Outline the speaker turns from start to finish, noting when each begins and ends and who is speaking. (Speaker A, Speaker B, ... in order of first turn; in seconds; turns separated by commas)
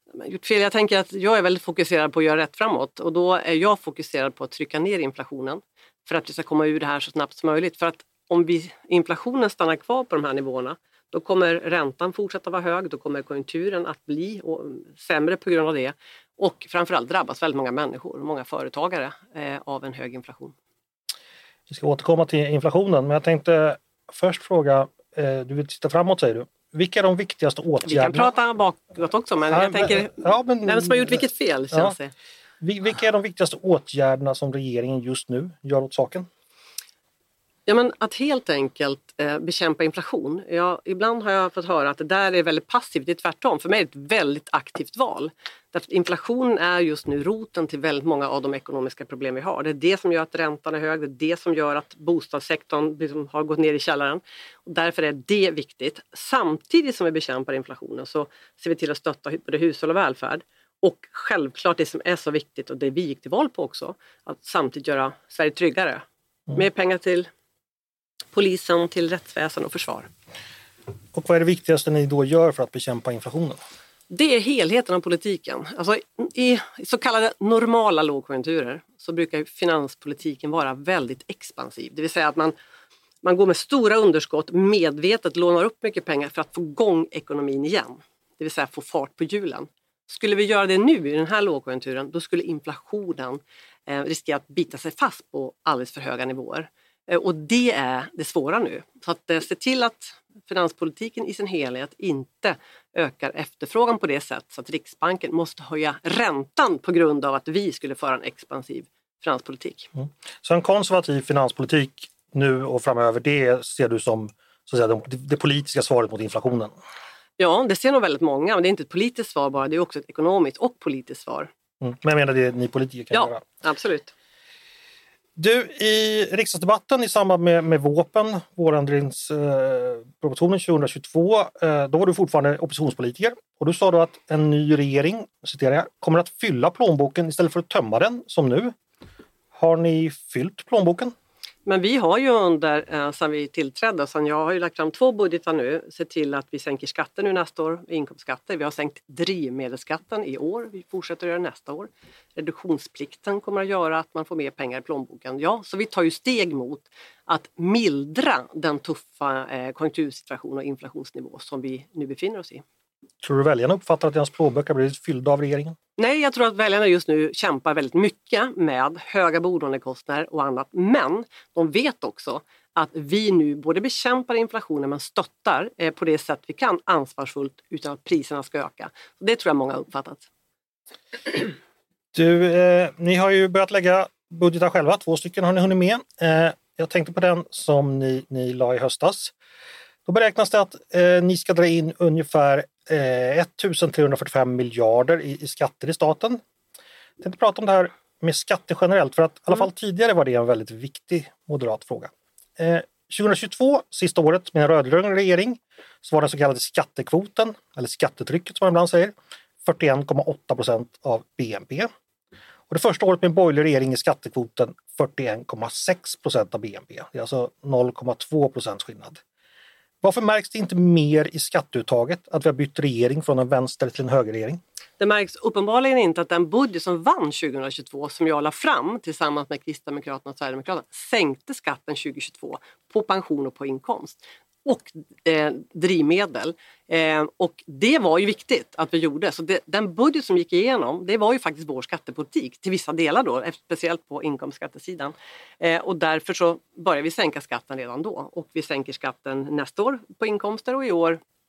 Speaker A: 0.1-20.5, Speaker B: 21.7-28.3, Speaker A: 27.9-32.1, Speaker B: 29.5-31.9, Speaker B: 32.6-36.3, Speaker A: 37.7-67.3, Speaker A: 68.3-70.1, Speaker B: 71.1-73.6, Speaker A: 74.1-82.5, Speaker A: 83.2-109.9, Speaker B: 110.0-116.7, Speaker A: 117.4-121.5, Speaker B: 121.8-123.4, Speaker A: 123.1-124.1, Speaker B: 125.4-138.7, Speaker B: 139.5-141.1, Speaker A: 141.7-162.6, Speaker B: 163.2-165.8, Speaker A: 166.0-180.2, Speaker B: 182.1-189.3, Speaker B: 190.1-196.4, Speaker B: 197.2-211.9, Speaker B: 212.7-219.2, Speaker B: 220.0-224.6, Speaker A: 225.0-251.2